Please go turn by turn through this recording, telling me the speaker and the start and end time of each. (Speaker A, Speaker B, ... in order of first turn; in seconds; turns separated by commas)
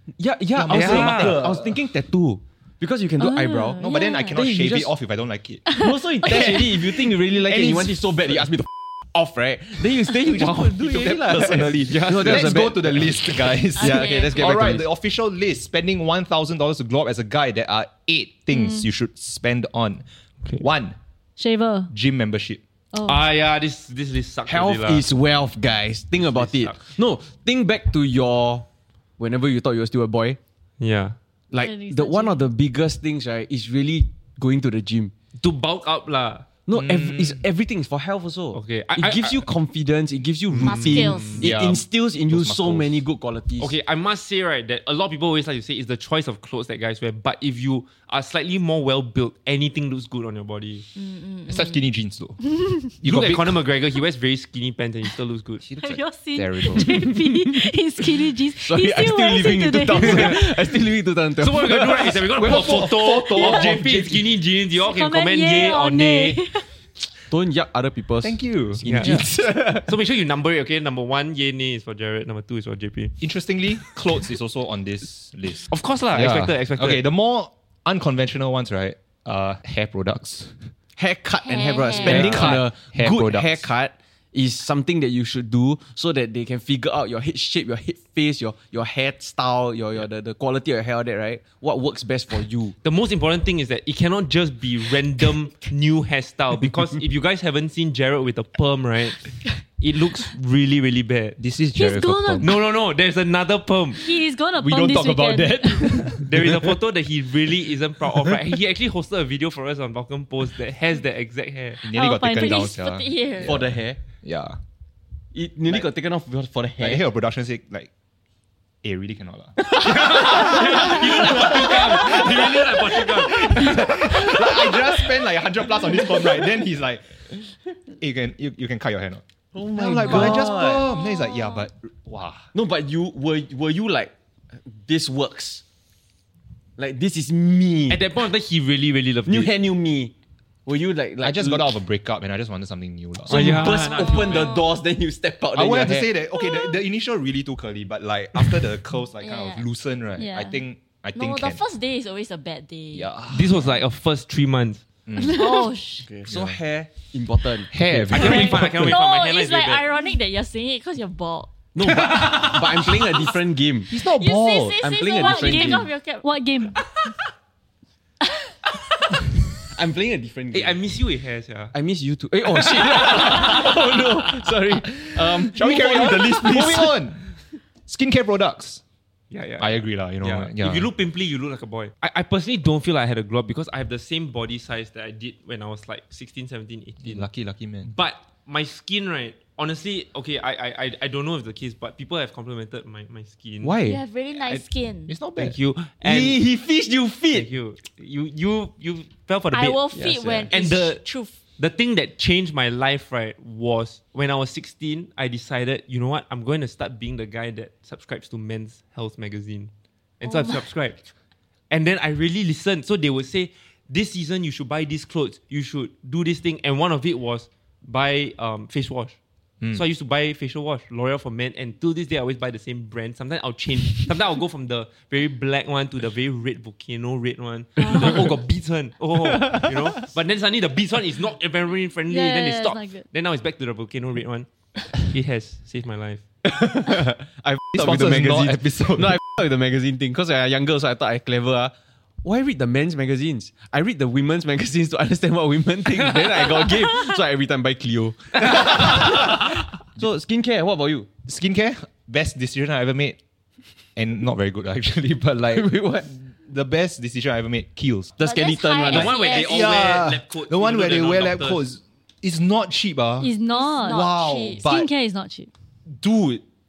Speaker A: 0.2-4.9, Speaker B: 0.5-1.8, Speaker C: 0.7-1.4, Speaker D: 3.2-4.3, Speaker B: 3.8-5.7, Speaker A: 5.7-14.9, Speaker B: 6.2-6.5, Speaker B: 7.5-8.0, Speaker B: 10.2-20.1, Speaker C: 11.9-12.6, Speaker E: 13.8-14.8, Speaker D: 18.5-18.9, Speaker B: 20.6-21.0, Speaker D: 21.4-21.9, Speaker B: 21.9-22.6, Speaker D: 22.9-23.2, Speaker C: 23.0-25.1, Speaker A: 24.5-28.7, Speaker C: 26.2-26.9, Speaker A: 29.2-30.4, Speaker C: 30.8-31.2, Speaker A: 31.5-35.1, Speaker D: 31.5-32.5, Speaker C: 35.4-36.5, Speaker A: 36.7-43.7, Speaker B: 36.7-37.4, Speaker C: 38.5-39.5, Speaker C: 40.5-41.4, Speaker E: 40.6-41.5, Speaker B: 41.4-43.0, Speaker C: 43.6-50.9, Speaker E: 51.0-51.8, Speaker B: 51.5-53.7, Speaker C: 53.0-55.6, Speaker B: 55.6-57.0, Speaker D: 55.8-60.4, Speaker A: 56.8-57.7, Speaker A: 58.6-62.2, Speaker C: 60.0-60.3, Speaker C: 61.4-66.4, Speaker B: 62.4-64.3, Speaker D: 64.8-66.7, Speaker A: 67.3-69.9, Speaker B: 68.2-69.3, Speaker C: 68.8-73.2, Speaker B: 73.2-80.7, Speaker C: 75.7-77.0, Speaker A: 81.0-92.8, Speaker E: 81.4-82.5, Speaker B: 82.0-83.7, Speaker C: 82.3-82.6, Speaker C: 92.8-101.4, Speaker B: 101.4-102.5, Speaker D: 101.8-102.5, Speaker C: 102.4-104.0, Speaker D: 104.0-106.1, Speaker B: 104.6-106.5, Speaker C: 106.3-111.8, Speaker B: 111.8-114.6, Speaker D: 111.9-112.7, Speaker E: 112.4-113.7, Speaker A: 113.4-114.0, Speaker A: 115.3-117.0, Speaker B: 116.8-117.9, Speaker B: 118.8-127.2, Speaker C: 119.7-123.8, Speaker A: 120.2-122.2, Speaker B: 128.0-132.5, Speaker A: 129.5-130.9, Speaker E: 130.2-131.7, Speaker A: 132.5-134.1, Speaker A: 134.7-135.6, Speaker A: 136.8-138.0, Speaker C: 137.9-139.5, Speaker A: 139.3-140.1, Speaker A: 140.7-141.7, Speaker B: 141.2-143.7, Speaker A: 143.3-146.1, Speaker C: 143.3-144.6, Speaker E: 143.7-144.8, Speaker B: 145.5-151.6, Speaker E: 146.5-146.7, Speaker E: 149.2-149.7, Speaker D: 150.2-150.6, Speaker E: 151.2-153.1, Speaker B: 152.9-153.8, Speaker C: 153.3-154.8, Speaker B: 155.1-155.7, Speaker E: 155.2-156.1, Speaker A: 156.0-158.2, Speaker B: 156.3-157.0, Speaker B: 157.7-159.0, Speaker C: 158.1-159.8, Speaker E: 158.2-161.7, Speaker A: 161.7-164.0, Speaker B: 163.9-164.8, Speaker E: 164.0-166.3, Speaker A: 164.8-165.9, Speaker D: 165.2-166.8, Speaker A: 169.7-170.8, Speaker C: 170.5-171.7, Speaker A: 171.7-177.0, Speaker C: 172.5-173.8, Speaker B: 175.0-177.3, Speaker B: 177.9-178.8, Speaker C: 179.3-187.3, Speaker B: 179.6-180.9, Speaker B: 187.0-187.9, Speaker C: 187.8-193.8, Speaker A: 193.6-194.0, Speaker E: 193.8-195.2, Speaker B: 195.1-195.6, Speaker C: 195.4-196.4, Speaker A: 196.0-197.5, Speaker C: 197.3-201.0, Speaker E: 199.5-201.4, Speaker C: 201.6-211.1, Speaker E: 210.3-210.5, Speaker C: 211.7-219.2, Speaker C: 219.7-236.2, Speaker E: 227.8-228.1, Speaker A: 229.3-230.0, Speaker D: 232.1-233.1, Speaker A: 236.4-241.7, Speaker B: 237.7-239.2, Speaker A: 242.2-251.1, Speaker C: 248.4-249.3, Speaker B: 251.3-253.2, Speaker B: 254.0-258.1, Speaker A: 255.5-256.1, Speaker A: 258.2-259.1, Speaker E: 258.2-259.7, Speaker C: 258.9-261.6, Speaker B: 258.9-263.3, Speaker D: 263.2-264.1, Speaker E: 263.5-264.7, Speaker B: 263.9-264.9, Speaker D: 264.6-265.5, Speaker B: 265.9-266.4